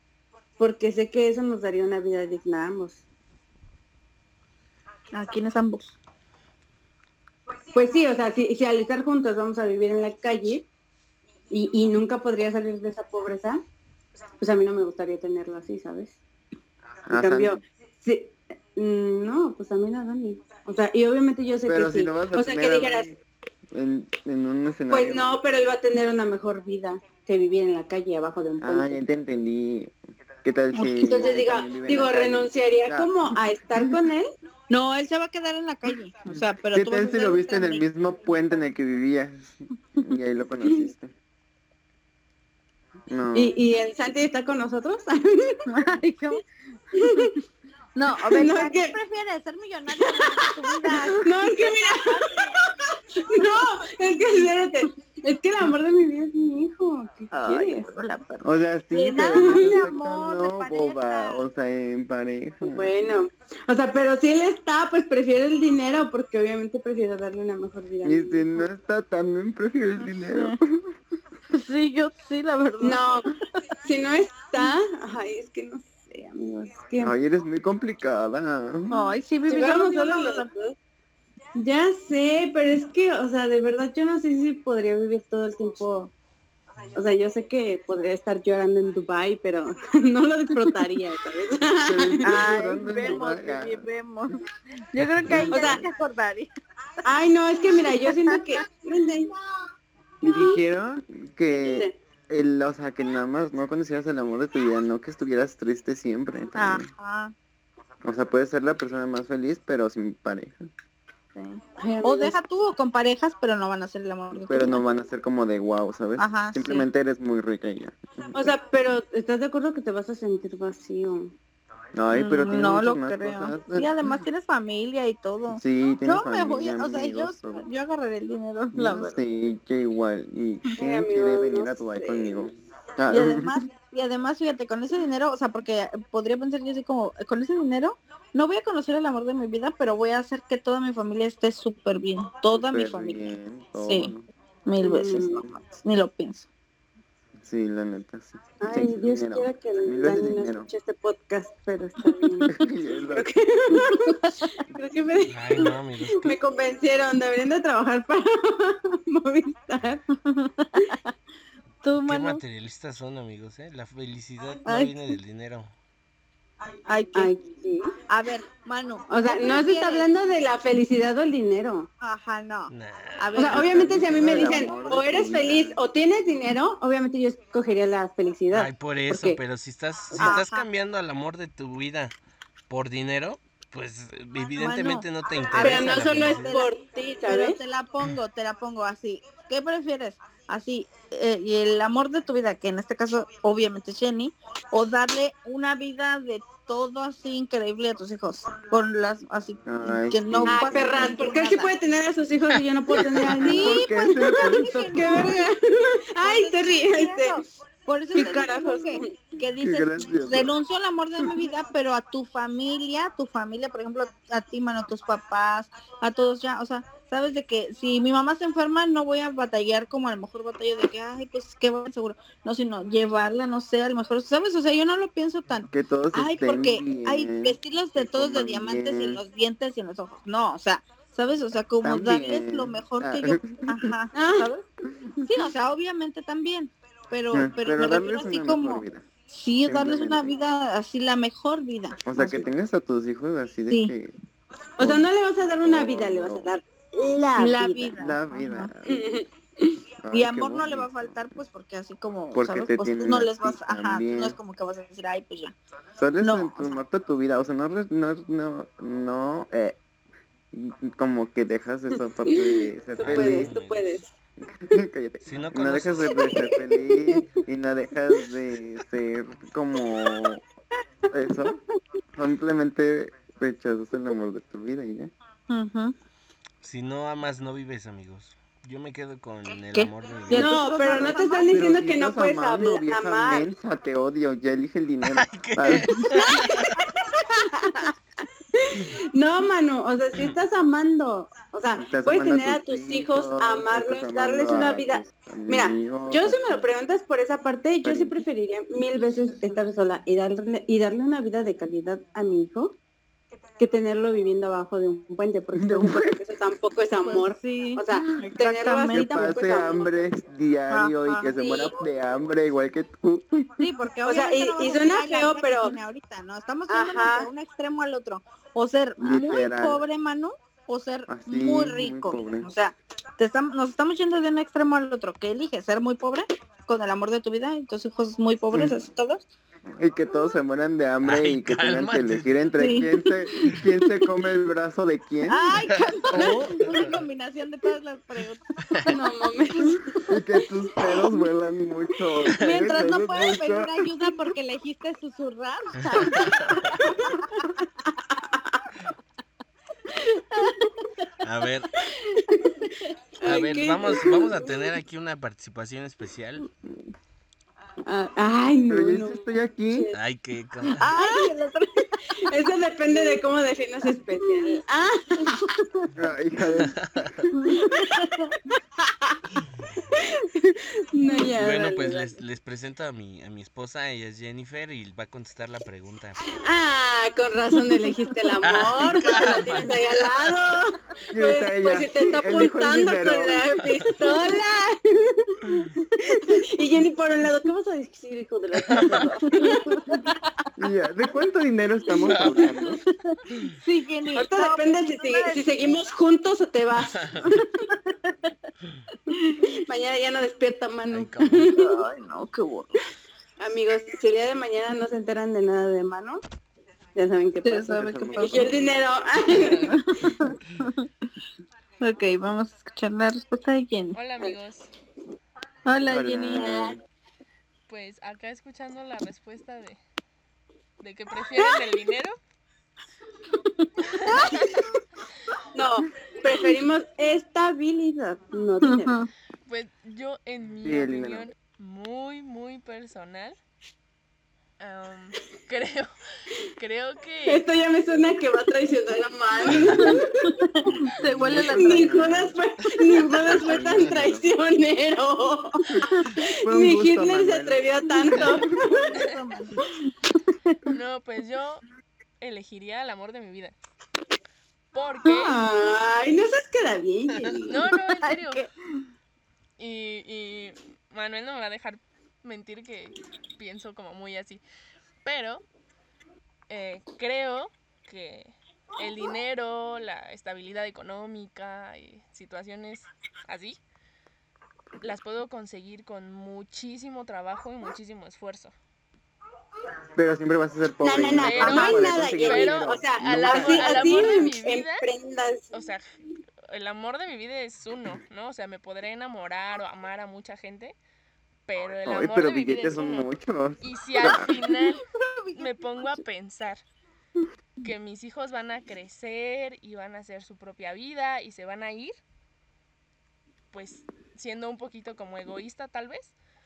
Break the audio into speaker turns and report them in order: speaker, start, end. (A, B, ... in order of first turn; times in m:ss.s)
0:00.6-0:03.0 A
0:05.1-0:06.0 B
0:07.7-0:10.7 A
0:11.5-0:13.6 A
0:14.4-0:16.2 A
0:17.1-0:17.6 C
0:17.1-0:23.1 A
0:21.7-0:23.2 C
0:23.7-0:25.4 C
0:24.9-0:29.0 A
0:28.6-0:33.1 C
0:30.8-0:34.3 A
0:34.7-0:37.8 B
0:36.3-0:41.1 C
0:43.1-0:43.6 C
0:43.4-0:45.7 A
0:45.7-0:46.4 B
0:46.9-0:47.4 A
0:47.0-0:47.3 B
0:48.0-0:52.6 B
0:48.2-0:49.0 A
0:50.0-0:57.9 A
0:57.3-1:01.4 B
0:58.4-1:03.0 C
0:59.4-0:59.8 A
1:02.6-1:08.5 A
1:08.0-1:11.0 C
1:11.5-1:13.4 B
1:12.8-1:13.3 A
1:13.8-1:17.1 A
1:17.0-1:19.1 C
1:18.9-1:20.5 B
1:19.5-1:20.8 A
1:21.6-1:26.1 A
1:26.9-1:32.3 A
1:31.8-1:33.9 C
1:32.2-1:34.4 B
1:34.9-1:36.5 B
1:35.2-1:35.8 C
1:35.5-1:35.8 A
1:37.0-1:39.3 A
1:38.0-1:38.4 B
1:40.2-1:46.9 C
1:40.2-1:40.5 A
1:41.5-1:42.0 A
1:46.6-1:47.3 B
1:48.0-1:50.7 C
1:51.4-1:54.8 B
1:51.8-1:52.4 A
1:54.5-1:58.5 C
1:56.2-1:56.9 B
1:58.3-2:01.4 A
2:02.0-2:03.9 C
2:02.1-2:09.2 B
2:05.5-2:07.6 C
2:08.7-2:13.6 C
2:10.8-2:12.5 A
2:13.1-2:24.1 B
2:22.5-2:24.3 C
2:24.7-2:26.5 B
2:24.8-2:25.4 A
2:27.4-2:30.7 C
2:28.6-2:32.6 A
2:32.5-2:33.3 C
2:33.1-2:40.0 A
2:33.9-2:34.3 B
2:35.3-2:36.4 D
2:40.2-2:40.9 B
2:41.8-2:42.4 B
2:42.1-2:45.7 D
2:44.6-2:44.9 B
2:46.9-2:47.3 B
2:47.1-2:48.0 A
2:48.1-2:50.1 B
2:49.1-2:51.9 A
2:52.0-2:54.7 B
2:52.7-2:53.5 D
2:53.4-2:59.4 A
2:53.4-2:55.8 C
2:58.5-3:02.1 D
3:00.1-3:00.4 A
3:00.2-3:00.7 B
3:02.7-3:06.6 D
3:04.6-3:06.7 B
3:05.5-3:07.6 A
3:07.2-3:21.7 B
3:19.7-3:21.3 C
3:20.5-3:27.4 A
3:23.0-3:23.4 D
3:23.3-3:25.5 B
3:23.4-3:25.2 C
3:26.2-3:54.6 B
3:28.1-3:29.1 A
3:29.6-3:30.5 C
3:45.7-3:49.2 C
3:51.8-3:53.9 C
3:54.1-3:54.5 A
3:55.2-4:02.1 B
3:57.3-3:59.1 C
3:59.6-4:00.3 C
4:02.0-4:04.1 C
4:02.2-4:02.4 A
4:04.8-4:07.9 A
4:04.8-4:05.1 C
4:05.6-4:06.5 C
4:07.4-4:08.7 B
4:08.0-4:09.1 C
4:08.9-4:09.7 A
4:10.0-4:11.3 C
4:10.1-4:15.6 B
4:12.3-4:14.4 C
4:16.0-4:19.8 C
4:16.2-4:16.8 B
4:20.5-4:23.6 C
4:22.3-4:24.1 A
4:23.0-4:24.0 D
4:24.4-4:30.4 C
4:25.2-4:26.3 D
4:26.3-4:27.2 A
4:31.1-4:31.6 C
4:32.2-4:35.1 C
4:35.5-4:36.0 B
4:36.6-4:40.6 D
4:39.7-4:41.7 B
4:40.3-4:43.5 A
4:40.9-4:46.2 C
4:45.1-4:46.8 D
4:46.3-4:47.9 A
4:48.5-5:02.8 A
4:51.8-4:56.7 C
4:57.8-4:58.2 C
5:03.6-5:09.9 A
5:05.5-5:06.2 C
5:07.0-5:09.6 B
5:08.9-5:13.6 C
5:10.7-5:11.7 B
5:11.4-5:11.7 A
5:13.6-5:29.2 B
5:14.1-5:15.8 A
5:16.7-5:17.3 A
5:19.0-5:19.8 C
5:21.1-5:22.5 C
5:28.5-5:28.8 C
5:29.8-5:35.5 C
5:31.0-5:32.4 D
5:32.6-5:32.9 B
5:35.3-5:39.0 B
5:35.7-5:37.0 D
5:36.1-5:36.8 C
5:38.7-5:38.9 D
5:38.9-5:40.2 A
5:40.0-5:43.8 C
5:42.2-5:46.5 B
5:45.8-5:46.8 D
5:46.0-5:48.7 A
5:50.4-5:50.7 B
5:51.2-5:51.8 D
5:51.9-5:54.6 A
5:52.4-5:52.7 B
5:53.2-5:56.5 D
5:57.9-6:00.0 A
5:58.7-5:59.9 C
5:59.9-6:00.9 D
6:00.7-6:02.2 B
6:00.9-6:01.3 A
6:02.1-6:05.5 A
6:05.4-6:05.9 B
6:06.0-6:06.8 C
6:06.6-6:07.3 D
6:07.3-6:08.4 B
6:07.4-6:08.2 A
6:08.8-6:09.2 A
6:09.9-6:12.2 A
6:11.3-6:16.2 D
6:16.3-6:30.0 A
6:18.4-6:20.4 D
6:21.1-6:23.5 C
6:28.6-6:29.2 D
6:29.4-6:29.8 B
6:30.6-6:32.8 C
6:31.9-6:32.6 D
6:33.5-6:35.7 B
6:34.2-6:37.5 A
6:36.9-6:37.3 D
6:37.7-6:38.2 B
6:39.1-6:39.4 B
6:39.4-6:41.8 A
6:40.9-6:41.5 D
6:41.5-6:42.8 B
6:43.4-6:46.2 A
6:47.0-6:49.8 A
6:47.4-6:48.5 B
6:47.7-6:48.6 C
6:49.3-6:49.8 D
6:49.6-6:50.9 B
6:51.8-6:54.0 B
6:53.9-6:54.7 E
6:55.7-6:56.8 B
6:55.9-6:56.8 C
6:57.7-6:59.8 E
7:00.8-7:02.2 E
7:01.4-7:01.7 A
7:03.6-7:04.1 B
7:03.9-7:04.6 E
7:04.1-7:04.5 A
7:05.5-7:09.0 A
7:08.6-7:09.1 B
7:09.5-7:13.4 E
7:10.6-7:11.3 C
7:14.6-7:15.9 E
7:16.6-7:17.4 E
7:17.3-7:20.3 A
7:19.5-7:19.8 D
7:19.8-7:22.0 B
7:20.6-7:22.4 C
7:21.3-7:29.0 A
7:23.2-7:24.3 C
7:25.7-7:28.5 C
7:28.6-7:29.9 B
7:30.7-7:31.6 E
7:32.2-7:33.6 E
7:34.7-7:35.4 E
7:35.0-7:37.7 A
7:37.5-7:38.4 E
7:37.9-7:38.5 B
7:39.6-7:44.4 E
7:45.0-7:45.4 E
7:46.5-7:53.6 E
7:54.8-7:58.5 E
8:00.0-8:04.2 C
8:00.8-8:05.5 A
8:01.1-8:04.9 E
8:05.5-8:05.8 E
8:06.5-8:10.8 E
8:11.5-8:13.1 E
8:11.9-8:14.4 C
8:13.6-8:16.6 E
8:15.0-8:15.5 B
8:17.6-8:22.0 E
8:23.5-8:26.2 E